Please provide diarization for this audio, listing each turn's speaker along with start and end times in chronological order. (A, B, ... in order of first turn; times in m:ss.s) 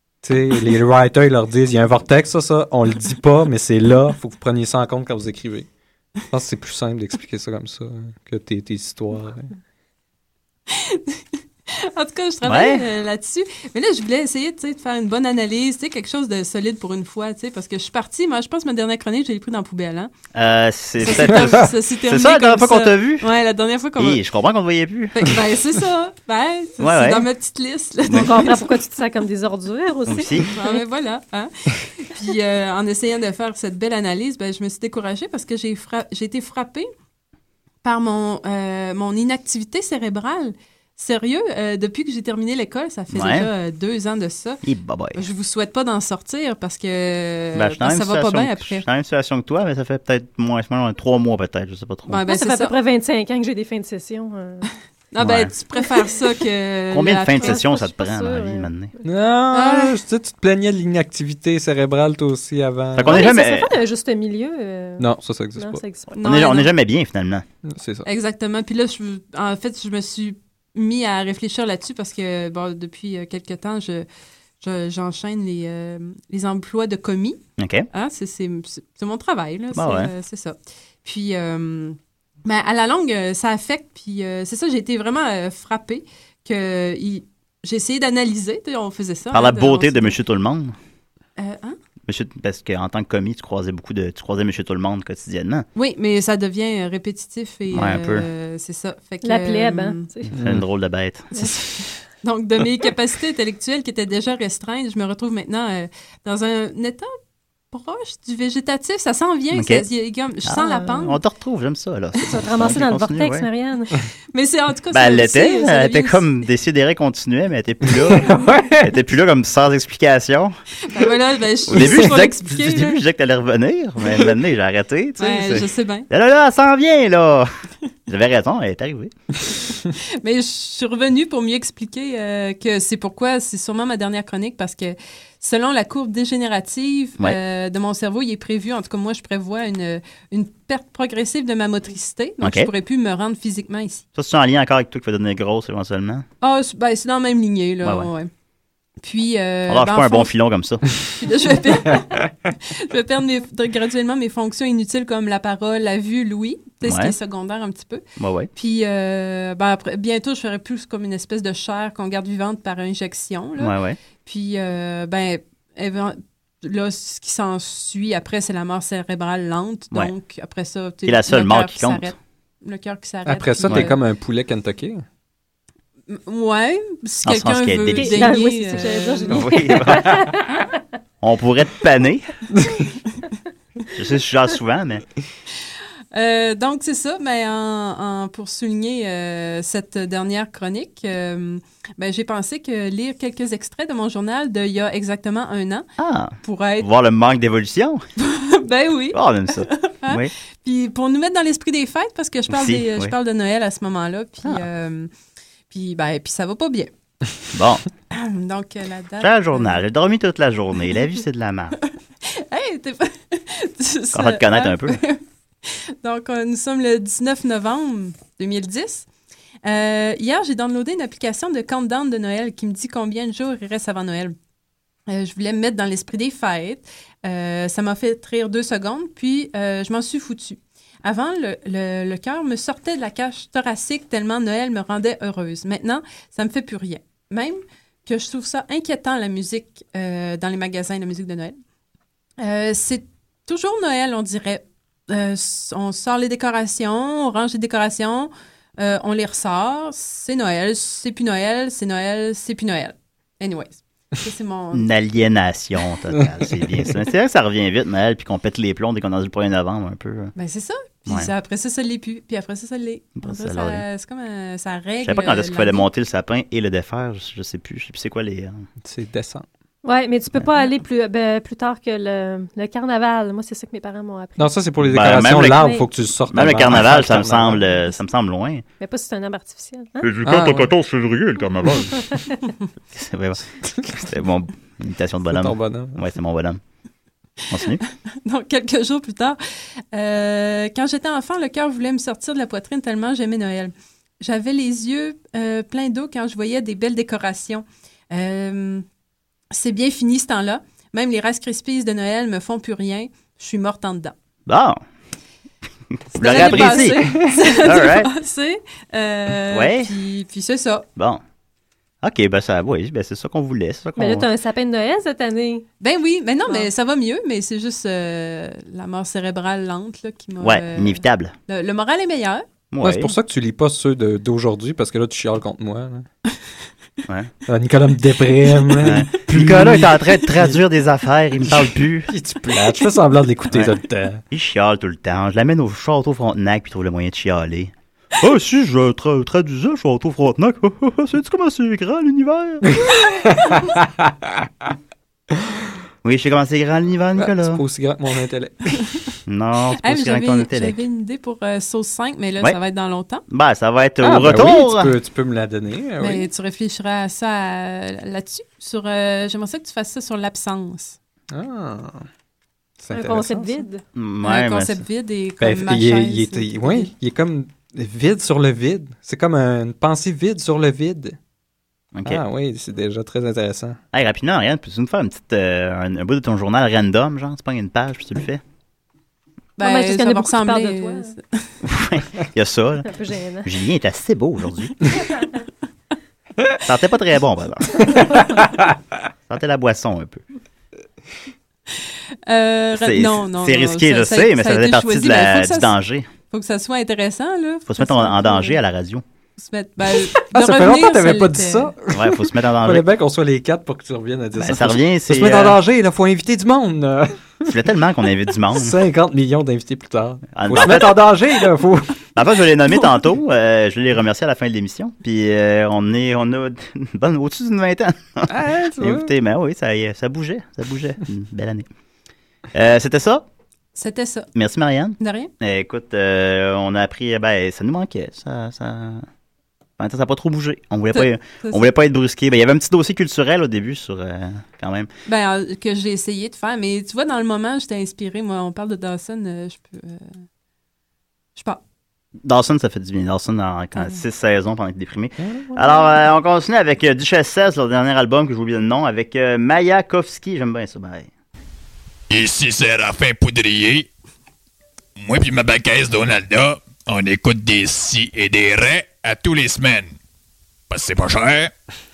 0:00.2-0:05.7 A
0:06.3-0:09.5 A
0:10.7-0:20.1 B
0:12.4-0:12.8 C
0:20.3-0:23.3 C
0:21.0-0:24.2 B
0:24.0-0:25.2 C
0:25.2-0:28.7 B
0:26.8-0:27.3 C
0:28.1-0:30.8 D
0:30.1-0:30.5 C
0:30.5-0:36.9 B
0:37.8-0:44.6 B
0:43.1-0:43.5 C
0:44.6-0:45.2 C
0:45.2-0:48.8 B
0:47.6-0:52.2 C
0:52.1-0:52.8 B
0:52.3-0:54.7 D
0:55.1-0:57.6 B
0:55.2-0:55.5 C
0:56.9-0:58.9 C
0:57.3-0:58.7 D
0:59.0-1:03.2 A
0:59.5-1:00.0 B
1:03.0-1:03.8 C
1:03.0-1:06.2 D
1:05.0-1:05.8 A
1:06.2-1:06.7 B
1:06.2-1:07.4 C
1:07.6-1:08.1 A
1:08.0-1:14.1 B
1:14.6-1:17.4 B
1:17.6-1:17.9 C
1:17.9-1:30.2 B
1:19.7-1:20.1 C
1:29.3-1:30.7 C
1:31.4-1:31.8 B
1:32.1-1:35.6 C
1:35.8-1:40.1 B
1:37.7-1:38.3 C
1:39.2-1:40.4 D
1:40.3-1:41.5 C
1:40.3-1:40.6 A
1:41.4-1:47.1 B
1:47.7-1:51.2 B
1:49.5-1:49.9 C
1:50.5-1:53.5 C
1:52.3-1:54.0 D
1:54.3-1:56.3 B
1:54.9-2:00.6 C
1:58.1-1:58.9 A
2:00.9-2:03.0 B
2:01.7-2:07.5 C
2:05.2-2:06.1 B
2:08.1-2:09.1 C
2:10.0-2:24.0 B
2:22.4-2:22.7 C
2:24.2-2:26.3 C
2:26.4-2:28.3 B
2:27.8-2:28.1 C
2:29.0-2:30.3 B
2:29.7-2:30.8 C
2:31.2-2:38.0 B
2:36.8-2:37.2 C
2:38.2-2:38.5 C
2:38.6-2:54.0 B
2:43.6-2:44.0 C
2:51.0-2:52.1 C
2:53.3-2:55.0 A
2:56.1-2:59.5 B
2:57.2-2:58.3 C
2:58.0-3:00.5 D
2:59.3-3:00.3 C
3:01.2-3:02.3 C
3:04.0-3:05.0 C
3:06.1-3:15.9 B
3:16.0-3:18.0 C
3:16.4-3:16.9 B
3:18.2-3:25.1 B
3:19.1-3:20.3 C
3:22.5-3:23.1 C
3:25.7-3:26.9 B
3:27.5-3:27.8 C
3:28.1-3:29.8 B
3:29.2-3:31.8 C
3:32.2-3:39.1 B
3:34.1-3:35.0 C
3:39.6-3:44.4 B
3:45.1-4:01.6 B
4:02.4-4:14.9 B
4:14.7-4:20.3 C
4:20.4-4:25.9 B
4:23.2-4:23.8 C
4:25.0-4:28.6 C
4:28.8-4:29.5 A
4:29.8-4:34.6 D
4:34.4-4:37.7 A
4:34.8-4:35.7 C
4:35.5-4:35.9 D
4:36.3-4:38.6 C
4:38.8-4:40.1 D
4:40.0-4:42.1 C
4:40.2-4:40.7 A
4:42.0-4:42.4 D
4:42.9-4:46.6 C
4:45.3-4:46.0 A
4:47.5-4:47.8 C
4:48.2-4:49.4 B
4:49.9-4:58.8 B
4:59.5-5:04.2 B
5:04.5-5:04.8 C
5:06.1-5:08.1 C
5:06.1-5:10.9 B
5:07.0-5:07.4 A
5:09.5-5:09.9 C
5:11.0-5:11.2 C
5:12.0-5:14.3 C
5:14.0-5:15.6 D
5:15.8-5:22.4 B
5:20.4-5:21.3 C
5:22.7-5:23.1 C
5:22.8-5:26.1 A
5:27.5-5:30.6 A
5:28.8-5:32.1 C
5:32.1-5:34.2 A
5:34.3-5:42.8 C
5:42.7-5:44.4 A
5:46.0-5:47.6 C
5:47.2-5:48.8 A
5:49.3-5:50.8 C
5:49.8-5:53.2 B
5:53.3-5:54.9 C
5:54.0-5:56.2 A
5:56.0-6:01.0 B
6:01.3-6:02.1 A
6:02.8-6:03.6 A
6:02.9-6:03.8 D
6:04.0-6:04.8 C
6:04.2-6:06.9 B
6:05.4-6:11.2 A
6:11.9-6:12.2 C
6:12.0-6:13.8 A
6:13.9-6:18.4 C
6:19.6-6:21.5 B
6:19.6-6:21.1 D
6:21.6-6:22.9 C
6:22.8-6:23.5 D
6:23.4-6:25.0 C
6:26.6-6:28.0 C
6:28.0-6:28.7 A
6:29.3-6:30.2 C
6:31.8-6:35.7 B
6:32.8-6:36.1 C
6:36.3-6:38.6 B
6:37.7-6:39.0 C
6:39.4-6:41.7 B
6:40.2-6:47.5 A
6:41.9-6:42.9 C
6:44.4-6:45.6 C
6:47.5-6:48.8 C
6:48.5-6:52.0 A
6:50.3-6:51.0 C
6:52.2-7:01.7 C
6:58.3-6:59.1 A
7:02.5-7:03.2 C
7:03.8-7:04.3 B
7:04.4-7:09.1 C
7:05.0-7:05.3 B
7:09.8-7:14.9 C
7:10.9-7:11.7 B
7:15.1-7:20.2 B
7:22.2-7:31.1 C
7:25.2-7:25.7 A
7:32.1-7:33.9 E
7:35.0-7:40.0 E
7:40.7-7:41.5 E